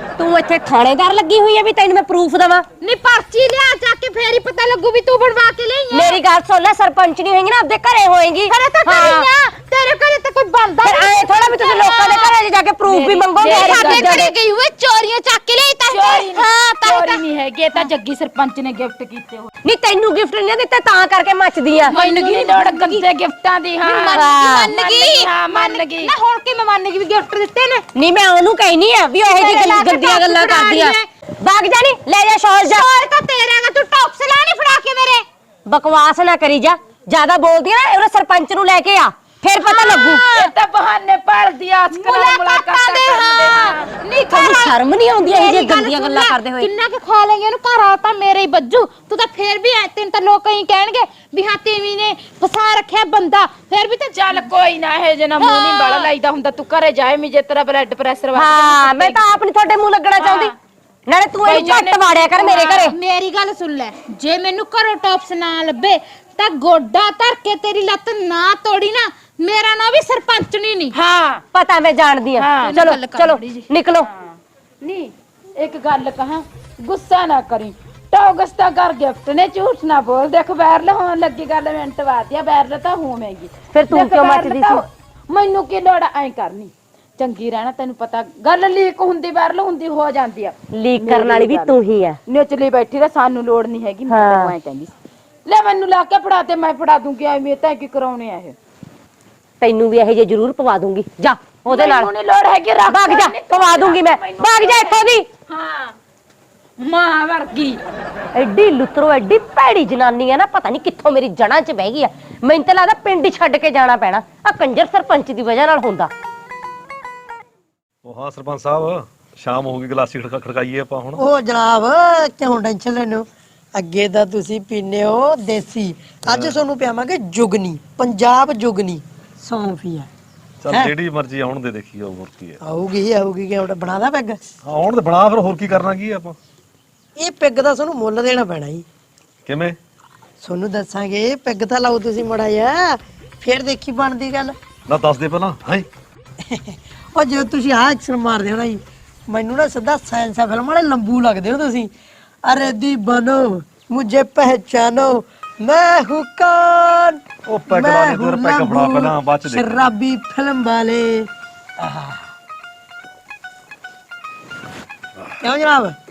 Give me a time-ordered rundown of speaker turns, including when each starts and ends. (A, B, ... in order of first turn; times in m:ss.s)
0:00.2-0:02.6 A
0:02.8-0:06.2 B
0:05.9-0:09.3 A
0:08.5-0:12.3 B
0:10.8-0:14.3 A
0:12.9-0:14.3 C
0:13.1-0:17.2 B
0:15.9-0:19.5 C
0:19.6-0:21.9 A
0:21.8-0:23.0 B
0:21.9-0:26.1 C
0:23.8-0:27.8 B
0:24.2-0:24.7 A
0:27.9-0:33.0 A
0:29.2-0:31.0 B
0:32.7-0:35.2 B
0:35.7-0:40.2 A
0:39.6-0:40.5 B
0:40.1-0:43.9 C
0:41.9-0:54.5 B
0:44.3-0:46.7 A
0:54.1-0:59.2 C
0:55.4-0:56.1 B
0:58.3-1:00.5 A
1:00.2-1:00.5 C
1:01.1-1:03.0 A
1:01.4-1:02.6 C
1:02.3-1:10.9 B
1:10.9-1:11.4 C
1:11.5-1:14.1 A
1:12.4-1:12.8 C
1:12.6-1:13.7 B
1:14.0-1:31.8 C
1:23.7-1:24.8 A
1:30.7-1:32.2 A
1:32.3-1:34.9 C
1:34.1-1:34.5 A
1:35.4-1:38.5 C
1:39.6-1:42.1 A
1:41.6-1:46.0 C
1:42.8-1:45.2 A
1:46.8-1:47.8 C
1:48.3-1:56.1 A
1:58.0-2:01.2 D
2:01.2-2:03.2 E
2:03.8-2:10.1 E
2:06.3-2:06.5 D
2:10.6-2:12.6 D
2:12.6-2:14.4 E
2:14.6-2:16.4 D
2:17.2-2:18.8 E
2:19.4-2:19.8 D
2:20.4-2:24.6 E
2:24.9-2:25.9 D
2:26.4-2:31.9 E
2:32.4-2:42.3 E
2:37.4-2:39.8 D
2:45.4-2:46.0 E